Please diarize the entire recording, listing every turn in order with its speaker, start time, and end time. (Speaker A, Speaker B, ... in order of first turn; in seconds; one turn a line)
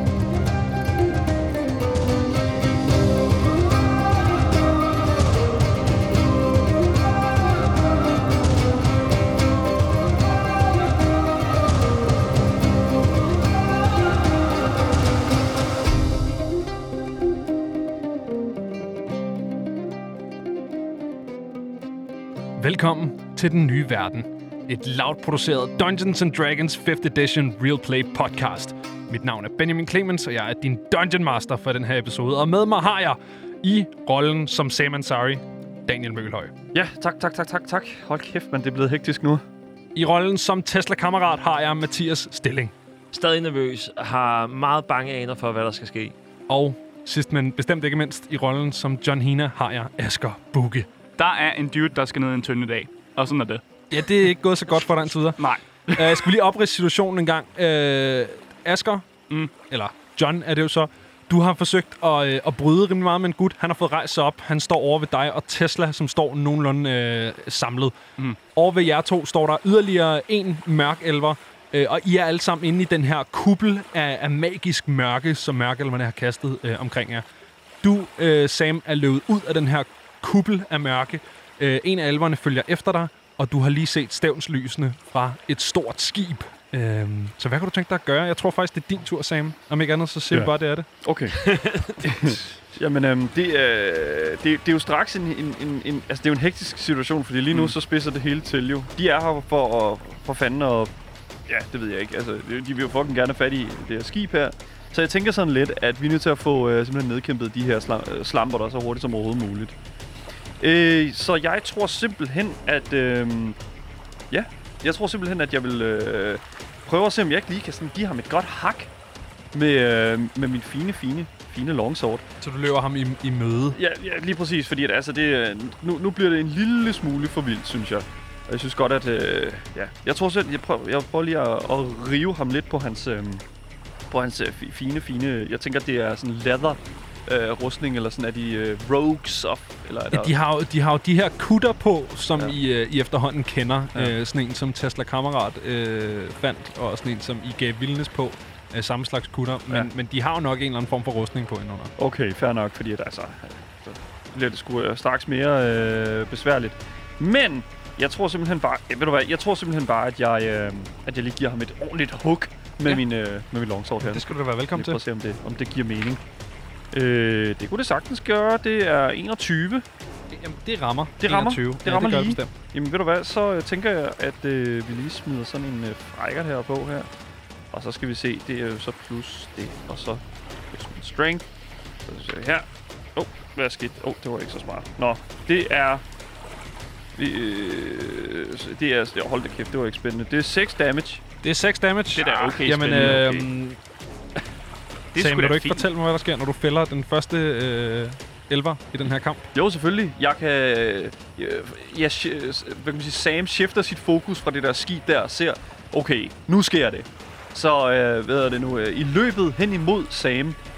Speaker A: 22.6-36.5
Speaker B: 36.7-39.4
Speaker A: 39.9-42.7
Speaker C: 43.1-46.1
Speaker A: 46.5-50.9
Speaker D: 51.2-53.6
Speaker A: 53.9-59.1
Speaker D: 55.4-56.2
Speaker A: 59.7-68.0
Speaker A: 68.5-77.2
Speaker A: 77.8-90.9
Speaker B: 91.0-91.4
Speaker C: 91.3-91.9
Speaker B: 92.0-100.9
Speaker B: 101.5-109.8
Speaker B: 110.6-113.6
Speaker B: 114.3-118.9
Speaker B: 119.5-122.2
Speaker A: 122.4-123.8
Speaker B: 123.7-133.4
Speaker B: 134.1-140.3
Speaker A: 140.1-151.9
Speaker B: 152.0-166.2
Speaker A: 164.0-165.0
Speaker B: 166.9-169.8
Speaker A: 170.3-172.5
Speaker B: 171.2-177.1
Speaker B: 177.7-181.5
Speaker B: 182.1-186.0
Speaker B: 187.2-191.2
Speaker A: 191.4-193.8
Speaker D: 192.1-193.5
Speaker B: 192.2-193.2
Speaker D: 195.1-195.9
Speaker A: 195.2-199.5
Speaker B: 199.5-210.6